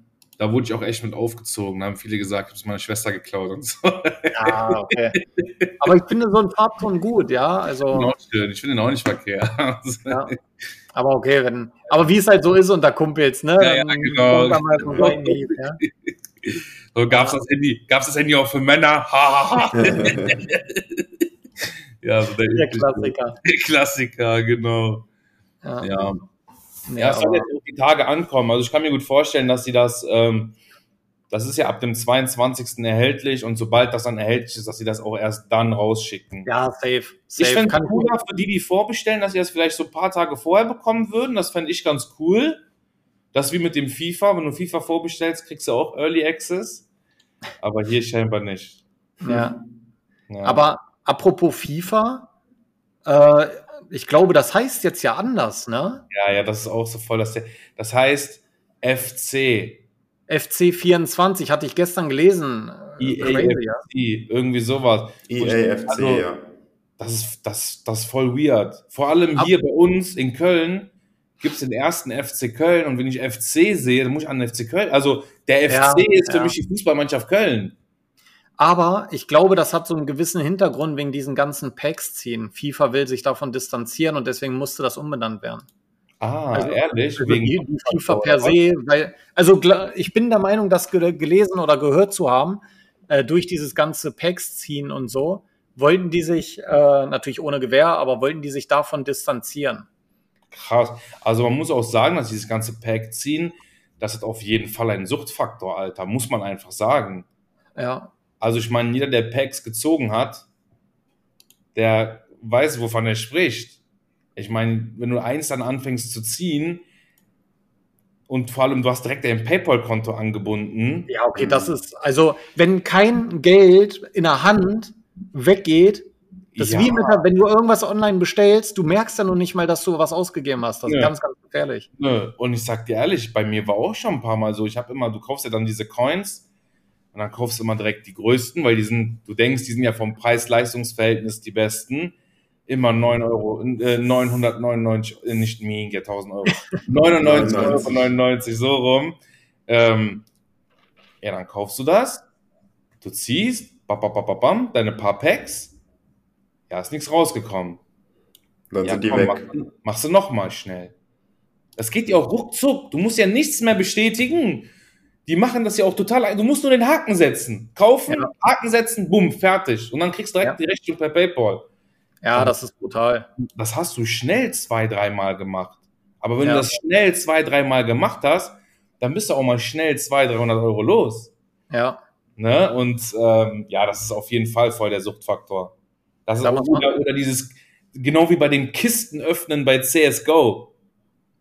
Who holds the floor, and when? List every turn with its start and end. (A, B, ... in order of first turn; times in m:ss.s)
0:00.4-0:05.9 A
0:04.3-0:05.2 B
0:05.8-0:08.1 B
0:07.9-0:10.3 A
0:10.1-0:10.3 B
0:10.9-0:15.8 B
0:13.6-0:21.2 A
0:14.8-0:15.1 C
0:17.1-0:17.4 B
0:19.8-0:20.3 C
0:22.0-0:25.1 A
0:22.5-0:23.4 B
0:25.6-0:25.9 B
0:25.8-0:26.2 A
0:26.9-0:27.5 B
0:27.0-0:30.6 A
0:31.3-0:36.5 A
0:36.5-0:38.1 B
0:37.4-0:42.6 A
0:43.3-0:46.8 A
0:47.6-0:49.5 A
0:49.2-0:49.6 B
0:50.3-0:50.7 A
0:50.4-0:52.3 B
0:53.0-0:56.0 B
0:56.1-0:59.8 A
1:00.3-1:03.8 B
1:03.0-1:06.3 A
1:05.3-1:06.4 C
1:07.0-1:17.8 A
1:15.7-1:16.5 B
1:18.6-1:25.7 B
1:26.2-1:28.6 A
1:26.5-1:39.9 B
1:40.5-1:47.3 A
1:47.8-1:48.1 B
1:48.4-1:50.5 A
1:51.8-1:53.8 A
1:54.4-1:56.8 A
1:58.3-2:01.1 A
2:01.1-2:11.9 B
2:01.4-2:01.7 C
2:06.6-2:07.2 A
2:10.9-2:11.1 A
2:12.0-2:16.4 A
2:17.1-2:22.2 A
2:22.7-2:30.3 A
2:27.2-2:28.1 C
2:31.2-2:32.2 A
2:33.0-2:35.7 A
2:36.7-2:37.8 A
2:38.7-2:39.5 C
2:38.8-2:40.9 A
2:41.8-2:44.7 A
2:45.3-2:51.6 A
2:52.2-2:53.3 B
2:53.6-3:01.3 A
2:56.4-2:56.8 B
3:01.7-3:02.0 B
3:02.4-3:05.7 A
3:06.3-3:10.7 A
3:06.4-3:06.9 B